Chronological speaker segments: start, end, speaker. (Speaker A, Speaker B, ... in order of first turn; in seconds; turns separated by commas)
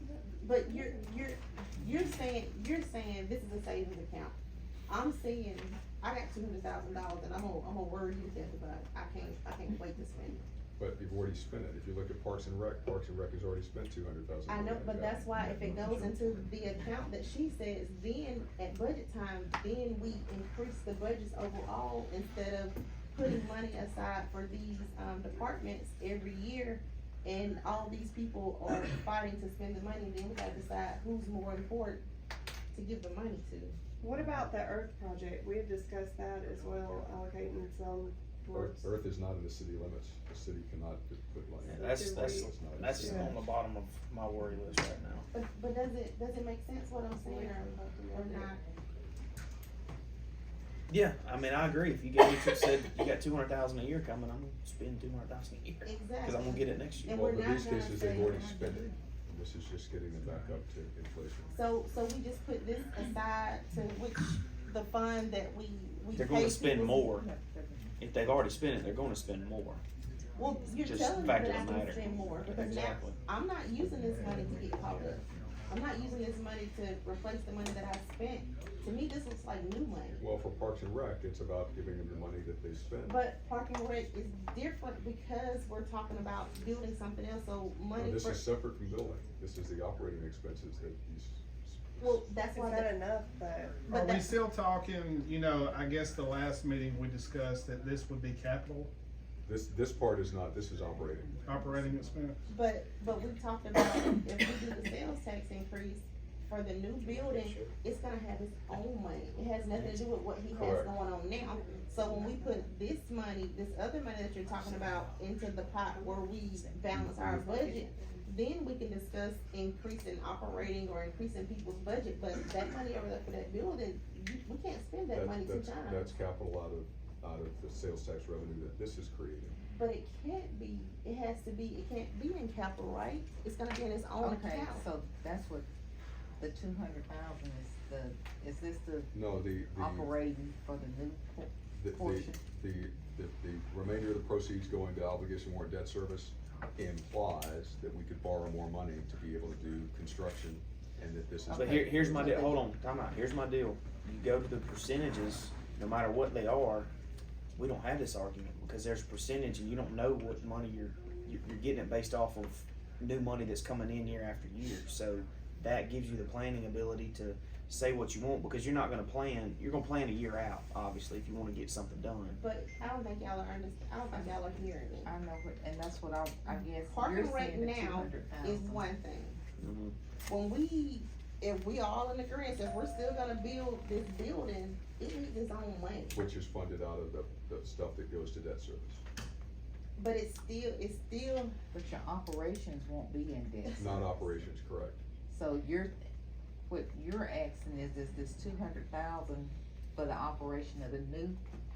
Speaker A: 0.4-4.3, Speaker A: 4.9-10.4, Speaker B: 10.8-15.9, Speaker A: 14.5-32.0, Speaker A: 32.7-33.8, Speaker C: 34.0-38.9, Speaker B: 38.5-43.4, Speaker D: 41.6-45.2, Speaker C: 41.8-42.4, Speaker C: 42.9-43.3, Speaker A: 45.3-48.6, Speaker C: 47.3-48.4, Speaker D: 50.9-57.2, Speaker A: 55.8-58.5, Speaker B: 57.2-61.5, Speaker E: 58.2-59.0, Speaker A: 61.5-67.1, Speaker D: 66.1-67.2, Speaker E: 67.2-67.9, Speaker D: 68.0-69.8, Speaker A: 70.4-80.2, Speaker D: 70.8-73.1, Speaker B: 80.2-83.2, Speaker A: 83.0-88.4, Speaker B: 87.9-92.2, Speaker A: 92.0-92.9, Speaker C: 92.5-93.8, Speaker A: 93.9-94.3, Speaker F: 93.9-98.9, Speaker B: 99.5-101.4, Speaker F: 101.5-102.4, Speaker A: 102.5-126.1, Speaker B: 110.5-110.9, Speaker C: 111.7-112.4, Speaker C: 117.3-118.2, Speaker B: 125.1-129.5, Speaker A: 129.7-134.9, Speaker E: 134.2-135.7, Speaker E: 136.4-139.1, Speaker B: 139.1-140.1, Speaker E: 139.7-142.4, Speaker B: 141.7-152.5, Speaker E: 151.5-152.6, Speaker D: 151.5-156.9, Speaker D: 157.6-172.4, Speaker A: 172.4-175.1, Speaker E: 175.0-178.9, Speaker A: 176.8-179.4, Speaker D: 179.6-179.9, Speaker A: 180.3-186.2, Speaker B: 186.1-189.0, Speaker A: 190.0-191.5, Speaker E: 191.7-194.3, Speaker B: 193.8-195.0, Speaker E: 195.3-196.1, Speaker E: 196.7-201.4